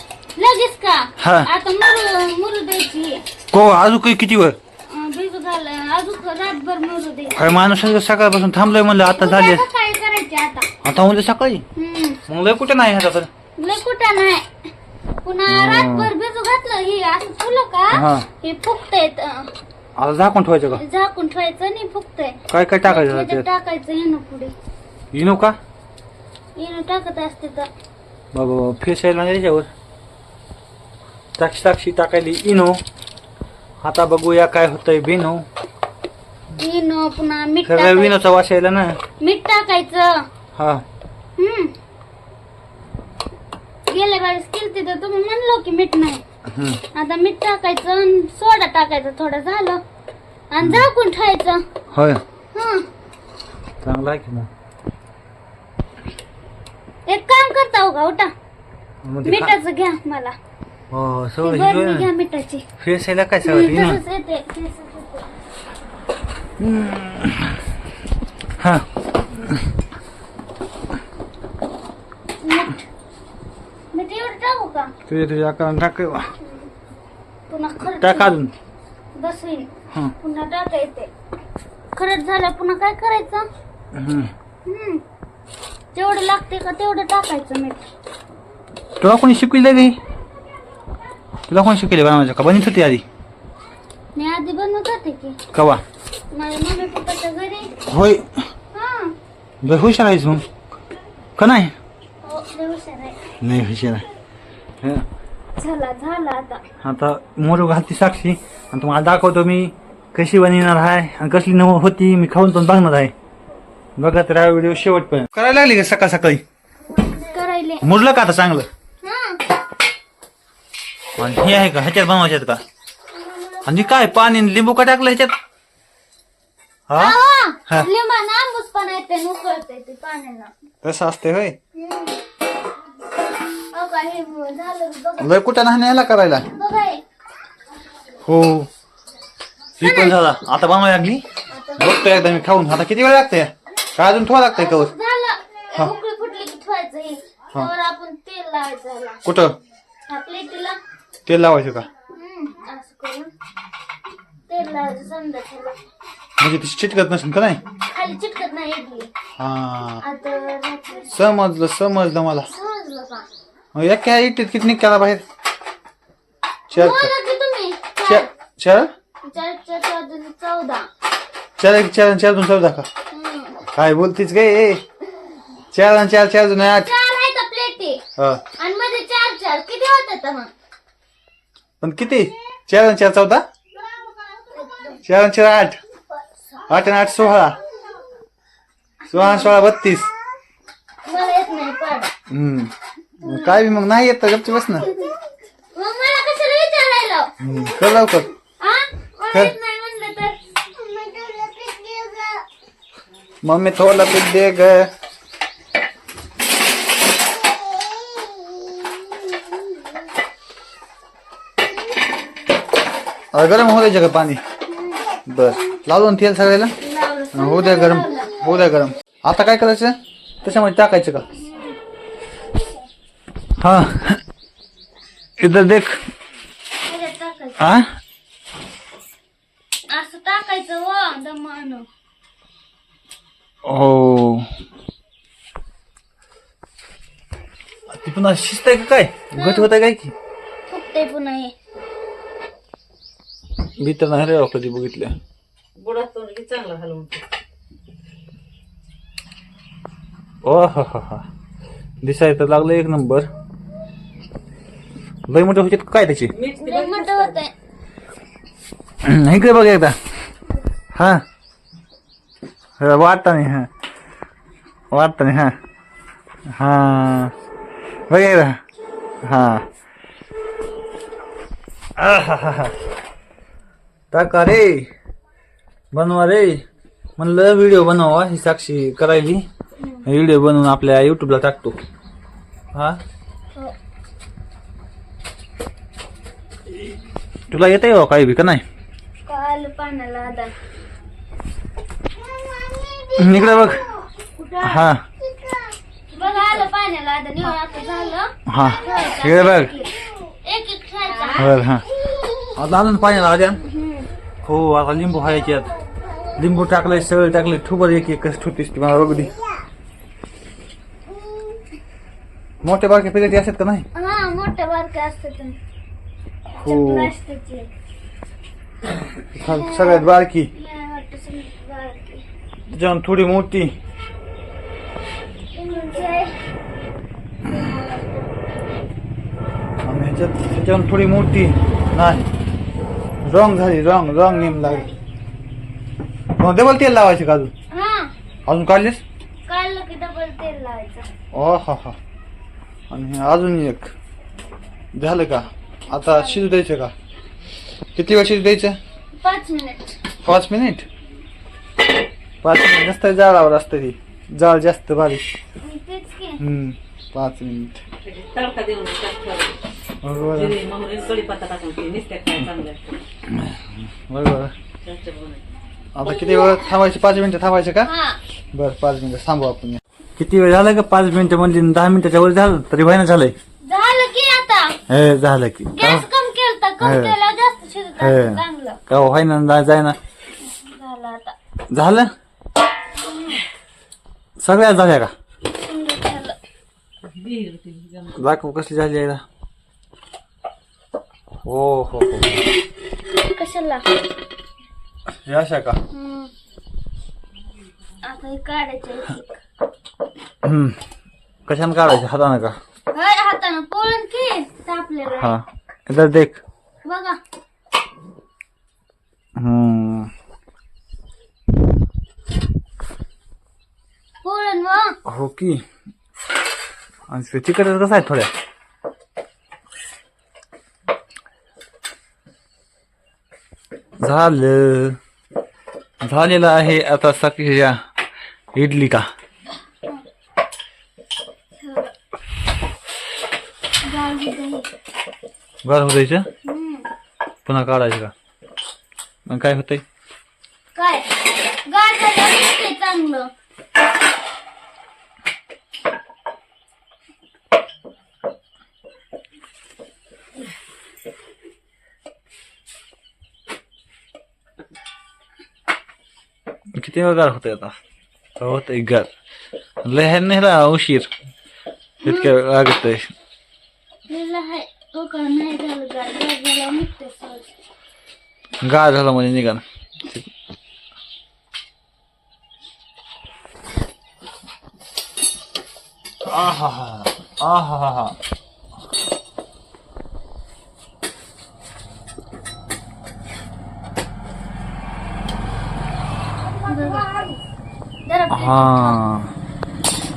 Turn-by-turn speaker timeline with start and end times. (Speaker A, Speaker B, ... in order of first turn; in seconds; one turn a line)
Speaker A: 0.4-3.2
Speaker B: 1.2-1.5
Speaker B: 3.5-4.6
Speaker A: 4.9-7.4
Speaker B: 7.3-9.6
Speaker A: 9.2-10.7
Speaker B: 10.8-11.7
Speaker A: 11.8-12.2
Speaker B: 12.3-13.3
Speaker A: 13.6-14.5
Speaker A: 15.2-19.5
Speaker B: 15.5-16.1
Speaker B: 17.9-18.3
Speaker B: 20.0-20.8
Speaker A: 20.7-24.5
Speaker B: 22.5-23.5
Speaker B: 25.1-25.6
Speaker A: 26.6-27.7
Speaker B: 28.3-29.7
Speaker B: 31.4-32.8
Speaker B: 33.8-35.5
Speaker A: 36.6-38.2
Speaker B: 37.6-39.0
Speaker A: 39.2-40.3
Speaker B: 40.6-40.9
Speaker A: 41.4-41.8
Speaker A: 43.9-46.2
Speaker B: 46.5-46.8
Speaker A: 46.9-49.8
Speaker A: 50.5-51.6
Speaker B: 51.9-52.2
Speaker A: 52.5-52.9
Speaker B: 53.8-54.5
Speaker A: 57.1-58.3
Speaker B: 59.0-59.5
Speaker A: 59.2-60.4
Speaker B: 60.9-62.1
Speaker A: 61.4-62.6
Speaker B: 62.8-64.0
Speaker A: 63.4-65.3
Speaker B: 66.6-67.6
Speaker B: 68.6-68.9
Speaker A: 72.4-72.8
Speaker A: 73.9-74.9
Speaker B: 75.1-76.3
Speaker A: 76.4-76.7
Speaker A: 77.5-78.3
Speaker B: 78.0-78.5
Speaker A: 79.2-81.1
Speaker A: 82.0-83.5
Speaker B: 83.9-84.3
Speaker A: 84.7-85.0
Speaker A: 85.9-87.8
Speaker B: 89.0-90.0
Speaker B: 91.5-93.0
Speaker A: 94.2-95.4
Speaker B: 95.5-95.8
Speaker A: 96.3-97.7
Speaker B: 97.9-98.3
Speaker A: 98.7-99.2
Speaker B: 99.6-100.4
Speaker B: 101.4-101.7
Speaker A: 102.2-103.2
Speaker B: 103.4-104.0
Speaker A: 105.6-106.6
Speaker B: 106.8-113.1
Speaker B: 114.0-116.4
Speaker A: 117.0-117.8
Speaker B: 117.8-118.7
Speaker A: 119.0-119.4
Speaker B: 121.2-122.6
Speaker A: 123.2-123.8
Speaker B: 123.7-125.3
Speaker B: 126.9-127.2
Speaker A: 127.0-130.5
Speaker B: 130.8-131.6
Speaker A: 131.8-132.2
Speaker A: 133.7-135.4
Speaker B: 135.2-136.5
Speaker A: 136.5-137.0
Speaker B: 138.2-138.7
Speaker B: 139.8-141.2
Speaker A: 139.8-140.2
Speaker A: 141.5-142.4
Speaker B: 141.8-144.9
Speaker A: 144.6-149.2
Speaker B: 149.2-149.6
Speaker A: 150.1-150.8
Speaker B: 151.3-151.9
Speaker A: 152.1-153.3
Speaker A: 154.5-155.8
Speaker B: 156.4-157.6
Speaker A: 157.9-159.1
Speaker B: 159.4-160.0
Speaker A: 160.0-161.2
Speaker B: 161.1-162.5
Speaker A: 162.5-163.3
Speaker B: 163.7-165.2
Speaker A: 166.7-168.3
Speaker B: 166.7-167.1
Speaker B: 168.1-168.9
Speaker A: 169.2-170.9
Speaker B: 171.6-172.9
Speaker A: 173.1-173.6
Speaker B: 173.7-174.8
Speaker B: 175.7-176.9
Speaker A: 176.7-178.0
Speaker B: 178.2-178.4
Speaker A: 178.6-180.5
Speaker B: 181.8-183.4
Speaker A: 184.4-185.0
Speaker B: 185.0-185.8
Speaker A: 186.1-186.7
Speaker B: 186.7-187.6
Speaker A: 189.0-189.7
Speaker B: 189.1-190.1
Speaker A: 191.1-192.1
Speaker B: 192.3-194.9
Speaker A: 193.2-193.7
Speaker A: 194.8-195.1
Speaker A: 195.7-197.3
Speaker B: 197.4-198.3
Speaker A: 198.6-202.4
Speaker B: 203.4-204.9
Speaker B: 213.3-214.4
Speaker A: 214.7-215.0
Speaker B: 215.3-216.7
Speaker A: 216.8-218.4
Speaker B: 217.3-221.2
Speaker A: 221.3-221.8
Speaker B: 223.6-224.2
Speaker B: 225.4-226.0
Speaker A: 226.8-227.7
Speaker B: 227.6-227.9
Speaker A: 229.9-231.9
Speaker B: 233.7-234.5
Speaker B: 237.9-240.2
Speaker A: 239.3-239.7
Speaker A: 240.7-241.5
Speaker B: 243.8-245.1
Speaker C: 245.8-247.3
Speaker B: 250.4-251.3
Speaker B: 252.0-253.3
Speaker B: 255.3-256.3
Speaker C: 256.4-257.0
Speaker A: 256.6-257.5
Speaker B: 259.0-260.0
Speaker B: 260.9-261.2
Speaker B: 262.8-263.7
Speaker B: 264.9-265.6
Speaker B: 266.5-267.3
Speaker B: 268.1-268.6
Speaker B: 269.2-269.7
Speaker B: 272.0-272.7
Speaker B: 274.1-274.9
Speaker B: 275.9-276.6
Speaker B: 277.2-279.4
Speaker A: 279.8-280.1
Speaker B: 280.1-281.8
Speaker B: 282.7-283.0
Speaker B: 287.5-288.6
Speaker A: 289.3-290.5
Speaker A: 292.7-294.9
Speaker B: 293.1-293.9
Speaker B: 294.6-295.0
Speaker A: 296.1-301.6
Speaker B: 298.5-299.8
Speaker B: 301.4-301.8
Speaker B: 302.6-303.6
Speaker A: 303.6-304.1
Speaker B: 304.4-305.7
Speaker B: 306.4-309.3
Speaker B: 312.6-313.9
Speaker A: 313.9-315.6
Speaker B: 316.6-317.1
Speaker A: 316.6-317.7
Speaker B: 319.4-320.5
Speaker A: 319.4-322.2
Speaker B: 322.7-323.7
Speaker A: 325.6-326.4
Speaker A: 327.4-328.3
Speaker B: 329.8-332.3
Speaker B: 333.2-334.9
Speaker A: 334.2-334.9
Speaker B: 336.4-337.5
Speaker A: 337.7-338.1
Speaker B: 338.5-339.0
Speaker A: 339.5-341.1
Speaker B: 341.3-342.0
Speaker B: 342.9-343.9
Speaker B: 344.9-346.9
Speaker A: 345.9-346.6
Speaker B: 347.9-348.8
Speaker A: 349.2-350.0
Speaker B: 350.2-350.9
Speaker B: 352.4-355.2
Speaker A: 355.6-356.4
Speaker B: 356.4-357.8
Speaker C: 358.0-359.6
Speaker B: 360.0-360.6
Speaker C: 360.4-363.0
Speaker B: 363.3-364.5
Speaker C: 364.9-365.4
Speaker B: 365.9-367.9
Speaker A: 366.0-366.7
Speaker A: 367.8-368.2
Speaker B: 368.5-373.3
Speaker A: 373.6-374.8
Speaker B: 374.9-376.1
Speaker A: 375.7-378.8
Speaker B: 376.8-377.1
Speaker B: 378.0-380.0
Speaker A: 380.4-381.4
Speaker B: 381.7-382.1
Speaker B: 384.4-385.1
Speaker A: 385.5-386.4
Speaker C: 387.1-388.1
Speaker B: 388.1-389.2
Speaker B: 391.4-392.5
Speaker A: 393.1-393.9
Speaker B: 395.2-395.8
Speaker A: 395.9-396.3
Speaker A: 398.0-399.3
Speaker B: 400.4-400.8
Speaker B: 401.5-402.6
Speaker A: 402.9-405.3
Speaker B: 405.2-406.4
Speaker A: 406.9-407.2
Speaker B: 409.4-410.1
Speaker A: 414.2-415.0
Speaker B: 415.1-415.6
Speaker B: 417.1-418.3
Speaker B: 424.0-425.0
Speaker B: 426.0-427.8
Speaker B: 428.6-429.1
Speaker A: 431.6-431.9
Speaker A: 433.9-434.7
Speaker B: 435.6-436.3
Speaker A: 436.4-436.9
Speaker B: 437.5-438.1
Speaker B: 439.3-439.8
Speaker A: 440.8-443.3
Speaker B: 456.8-457.8
Speaker B: 458.4-459.1
Speaker B: 459.8-461.1
Speaker A: 462.0-462.3
Speaker B: 462.0-463.1
Speaker A: 464.1-467.5
Speaker B: 468.6-470.3
Speaker B: 476.3-478.2
Speaker A: 486.6-487.4
Speaker A: 488.1-489.0
Speaker B: 488.3-489.3